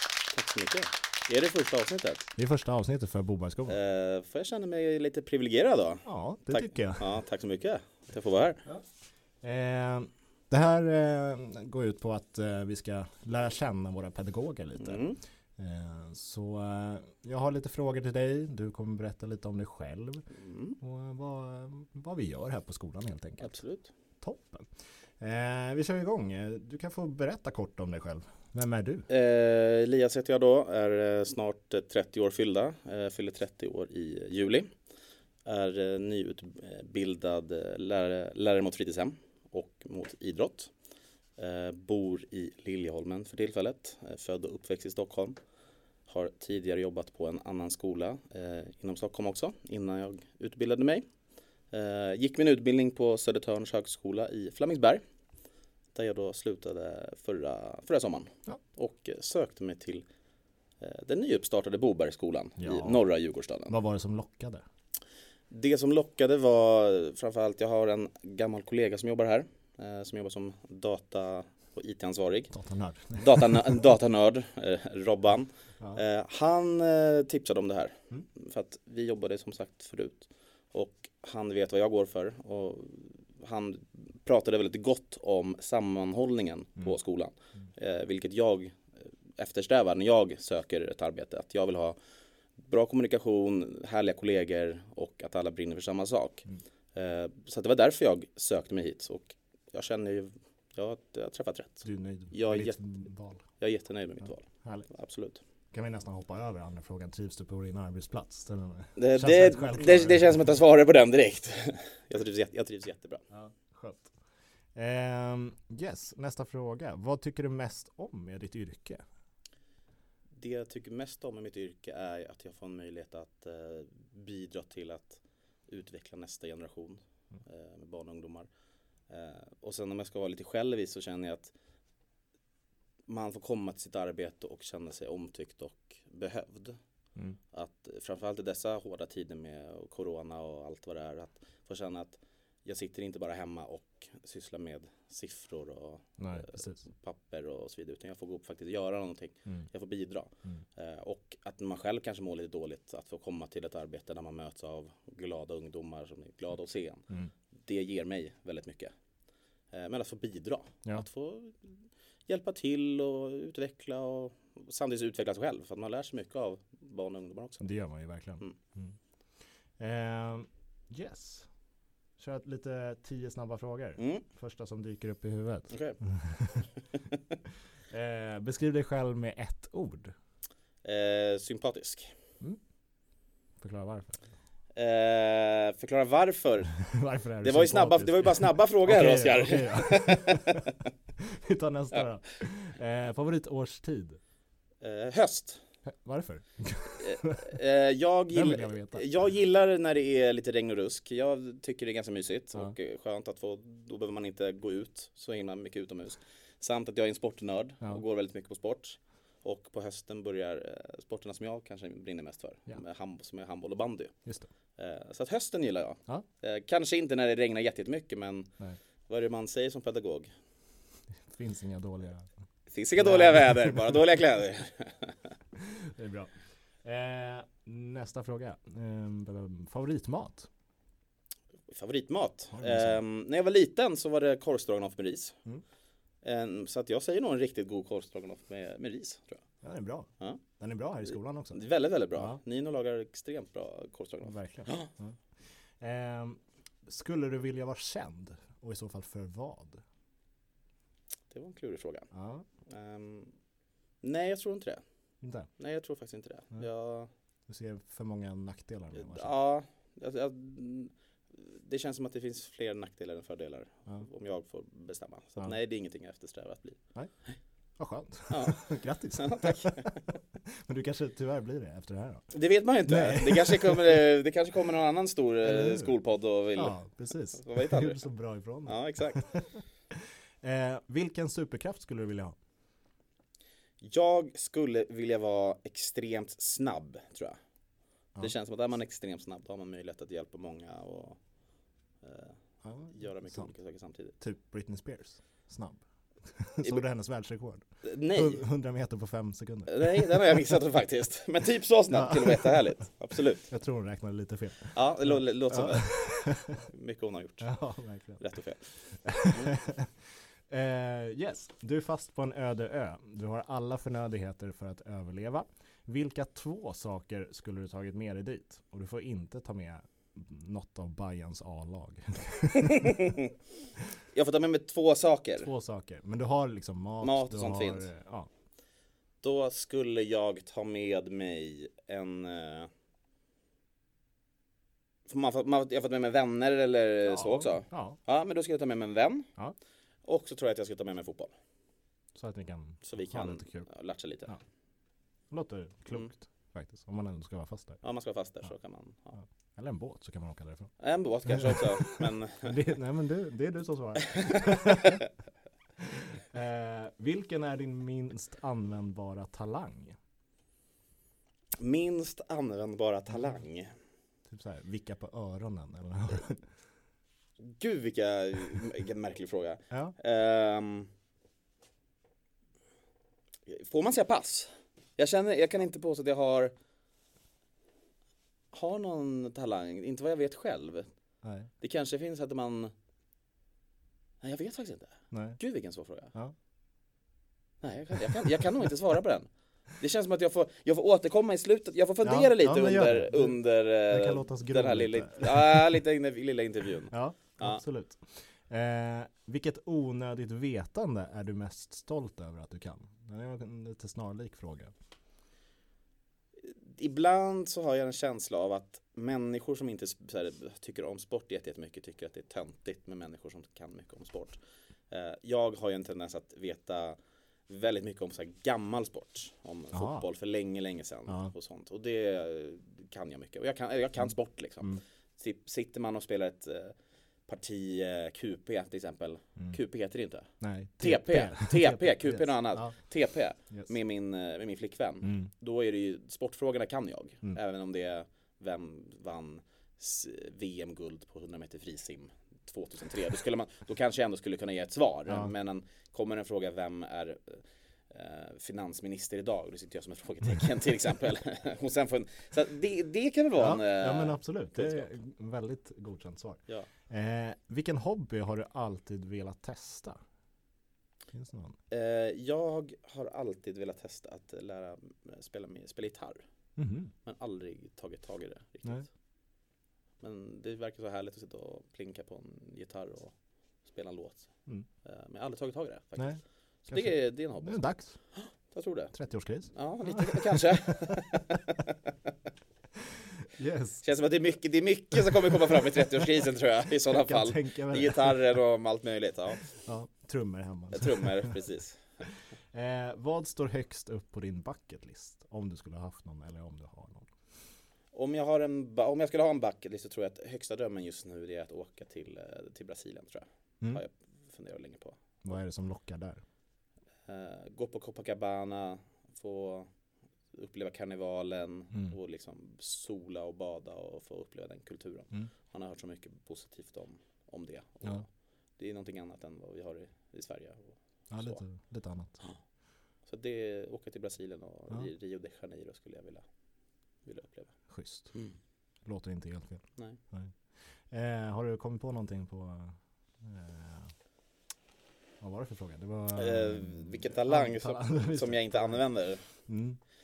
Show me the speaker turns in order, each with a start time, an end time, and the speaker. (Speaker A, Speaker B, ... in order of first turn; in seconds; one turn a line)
Speaker A: 0.3-2.3
Speaker B: 2.4-3.8
Speaker A: 3.7-8.6
Speaker B: 6.0-7.0
Speaker B: 9.4-20.2
Speaker A: 14.8-15.2
Speaker A: 20.4-20.8
Speaker B: 20.8-23.7
Speaker A: 23.4-23.9
Speaker B: 24.2-29.1
Speaker A: 29.1-34.7
Speaker A: 35.4-40.7
Speaker A: 41.4-45.4
Speaker A: 46.0-51.0
Speaker A: 51.7-55.0
Speaker A: 55.9-60.0
Speaker A: 60.8-63.7
Speaker B: 62.6-63.0
Speaker B: 63.7-64.6
Speaker A: 65.5-72.5
Speaker B: 72.5-73.7
Speaker A: 73.2-92.0
Speaker A: 92.6-105.4
Speaker B: 101.8-103.4
Speaker B: 104.4-104.9
Speaker B: 105.7-110.4
Speaker A: 109.0-113.2
Speaker B: 113.3-114.1
Speaker B: 114.7-119.0
Speaker A: 120.4-128.5
Speaker A: 129.1-131.5
Speaker A: 133.1-136.8
Speaker A: 137.5-158.9
Speaker B: 146.2-146.8
Speaker A: 159.7-167.7
Speaker B: 167.6-169.0
Speaker B: 169.8-171.5
Speaker B: 172.2-176.6
Speaker A: 174.0-174.2
Speaker A: 175.7-176.0
Speaker B: 177.9-180.1
Speaker A: 180.8-182.1
Speaker B: 183.6-184.2
Speaker A: 184.7-186.8
Speaker B: 186.9-190.6
Speaker A: 187.4-190.5
Speaker B: 191.4-194.2
Speaker A: 194.8-195.6
Speaker B: 195.9-197.5
Speaker A: 196.9-214.2
Speaker B: 198.3-199.1
Speaker A: 214.8-218.5
Speaker A: 219.1-220.3
Speaker B: 221.2-222.3
Speaker A: 222.7-225.2
Speaker B: 223.0-223.9
Speaker B: 225.6-230.5
Speaker A: 231.7-235.4
Speaker B: 232.5-233.0
Speaker A: 236.2-239.5
Speaker B: 239.6-241.6
Speaker A: 241.5-244.9
Speaker B: 242.1-242.4
Speaker B: 244.2-249.8
Speaker A: 251.3-253.4
Speaker B: 252.1-252.4
Speaker A: 254.0-254.8
Speaker B: 255.2-255.5
Speaker A: 255.5-257.1
Speaker B: 257.5-259.3
Speaker A: 258.9-267.4
Speaker B: 267.8-274.0
Speaker A: 268.3-269.9
Speaker A: 272.3-278.0
Speaker B: 275.4-275.9
Speaker B: 276.5-279.6
Speaker A: 278.6-279.2
Speaker B: 280.4-282.4
Speaker A: 283.8-287.4
Speaker A: 288.1-291.2
Speaker A: 292.0-294.1
Speaker B: 292.6-293.6
Speaker B: 294.2-300.0
Speaker A: 297.8-298.4
Speaker A: 299.7-303.5
Speaker B: 301.9-302.6
Speaker B: 303.4-306.5
Speaker A: 304.7-307.6
Speaker B: 307.4-309.9
Speaker A: 308.2-309.5
Speaker B: 310.5-323.0
Speaker A: 322.6-323.2
Speaker A: 324.1-325.5
Speaker B: 325.4-328.3
Speaker A: 327.0-327.9
Speaker A: 329.2-332.7
Speaker A: 335.1-339.3
Speaker B: 337.0-338.0
Speaker A: 340.0-341.3
Speaker B: 342.1-344.4
Speaker A: 342.8-344.3
Speaker B: 345.3-347.8
Speaker A: 347.8-349.2
Speaker B: 349.2-355.0
Speaker A: 350.8-352.5
Speaker B: 356.3-359.9
Speaker A: 361.6-363.8
Speaker B: 364.3-366.4
Speaker A: 367.5-370.9
Speaker B: 369.7-369.9
Speaker A: 373.5-376.5
Speaker A: 378.5-380.9
Speaker B: 381.2-381.5
Speaker A: 381.6-382.7
Speaker A: 384.2-386.1
Speaker B: 385.1-385.4
Speaker A: 387.6-397.6
Speaker B: 392.0-395.8
Speaker B: 396.9-404.7
Speaker A: 406.4-417.0
Speaker A: 417.5-454.9
Speaker B: 419.7-420.1
Speaker B: 421.1-421.3
Speaker B: 429.4-429.6
Speaker B: 430.3-433.7
Speaker B: 435.0-435.3
Speaker B: 445.1-445.3
Speaker B: 453.4-460.0
Speaker B: 461.1-461.6
Speaker A: 461.7-466.2
Speaker B: 466.6-466.9
Speaker A: 467.0-468.9
Speaker A: 470.0-481.5
Speaker B: 475.9-478.4
Speaker B: 478.9-480.9
Speaker B: 483.4-484.0
Speaker A: 483.8-489.5
Speaker B: 486.9-488.2
Speaker B: 489.5-491.4
Speaker A: 490.7-492.0
Speaker B: 492.5-497.1
Speaker A: 497.9-505.0
Speaker B: 505.2-506.2
Speaker A: 507.1-509.7
Speaker A: 510.3-521.5
Speaker B: 521.1-522.2
Speaker A: 522.2-522.4
Speaker A: 523.0-526.4
Speaker A: 527.0-528.4
Speaker B: 527.7-533.9
Speaker A: 529.8-530.0
Speaker B: 535.2-539.8
Speaker A: 536.1-539.5